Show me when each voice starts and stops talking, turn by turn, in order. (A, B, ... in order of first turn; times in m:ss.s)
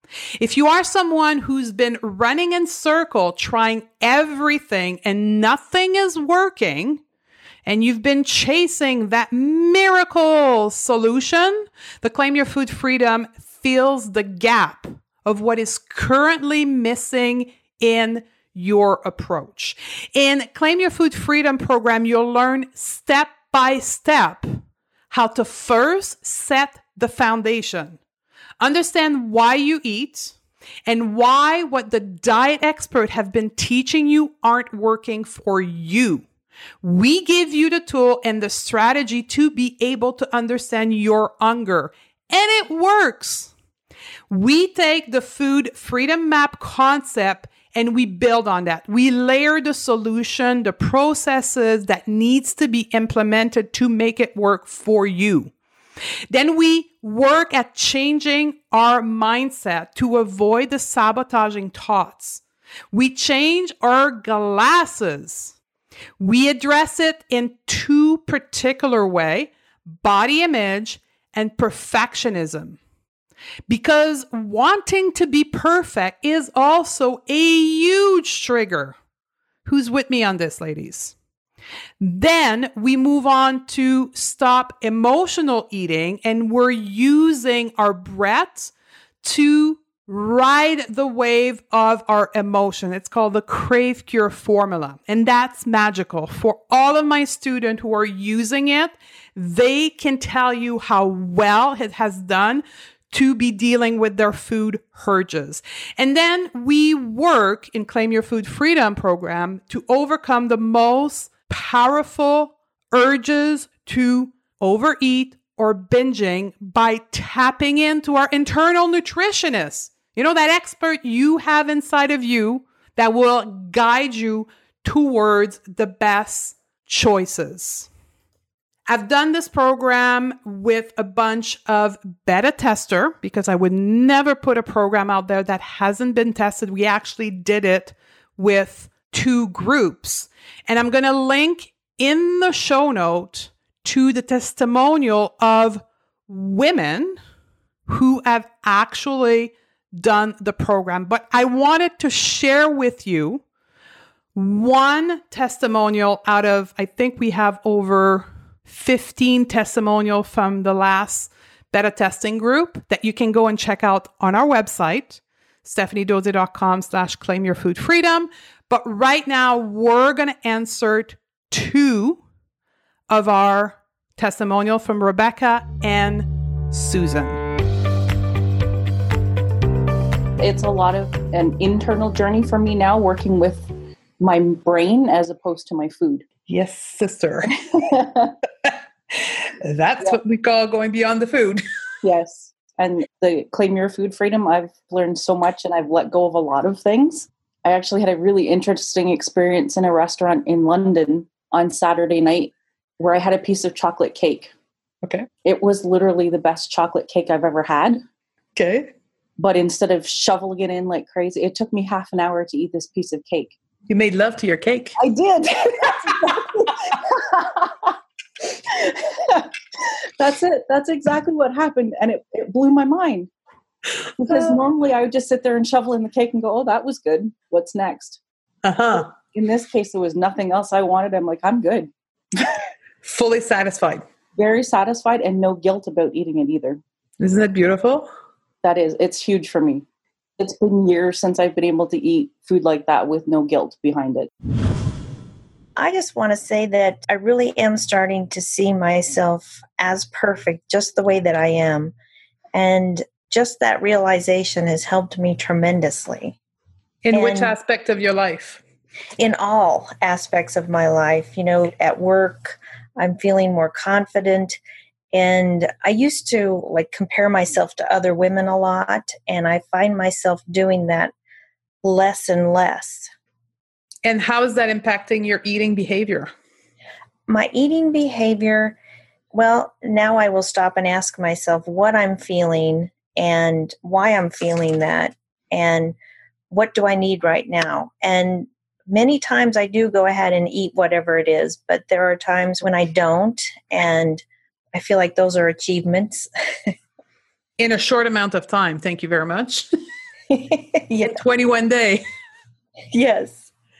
0:00.4-0:07.0 A
0:07.6-0:24.6 A
0:25.1-0:28.0 A
0:28.6-0:30.4 A
0:30.9-0:36.2 A
0:36.8-0:43.5 A
0:44.3-0:55.5 A
0:56.3-1:05.5 A
1:06.2-1:12.8 A
1:13.7-1:19.0 A
1:19.6-1:21.1 A
1:22.0-2:07.9 A
2:08.9-2:27.2 A
2:27.9-2:33.4 A
2:34.3-2:52.2 A
2:53.1-2:57.4 A
3:00.4-3:03.7 B
3:04.2-3:06.2 B
3:06.5-3:07.6 A
3:07.7-3:08.3 B
3:09.1-3:11.6 A
3:12.0-3:24.5 B
3:25.4-3:28.0 B
3:28.6-3:28.9 A
3:29.4-3:33.6 B
3:33.9-3:35.0 A
3:35.0-3:43.3 B
3:44.2-3:48.2 B
3:48.6-3:49.1 A
3:49.1-3:51.9 B
3:53.0-3:54.0 A
3:54.4-3:56.8 B
3:57.2-3:58.1 A
3:58.6-3:59.8 B
4:00.4-4:04.3 B
4:05.8-4:11.9 C
4:12.5-4:16.4 C
4:17.0-4:18.6 A
4:17.1-4:17.5 C
4:19.2-4:24.6 C
4:25.1-4:31.1 C
4:31.8-4:33.1 C
4:34.0-4:36.3 A
4:37.3-4:38.8 C
4:39.3-4:45.9 C
4:46.5-4:56.2 C
4:57.6-4:59.6 A
5:00.3-5:01.2 C
5:01.0-5:02.0 A
5:02.9-5:03.4 C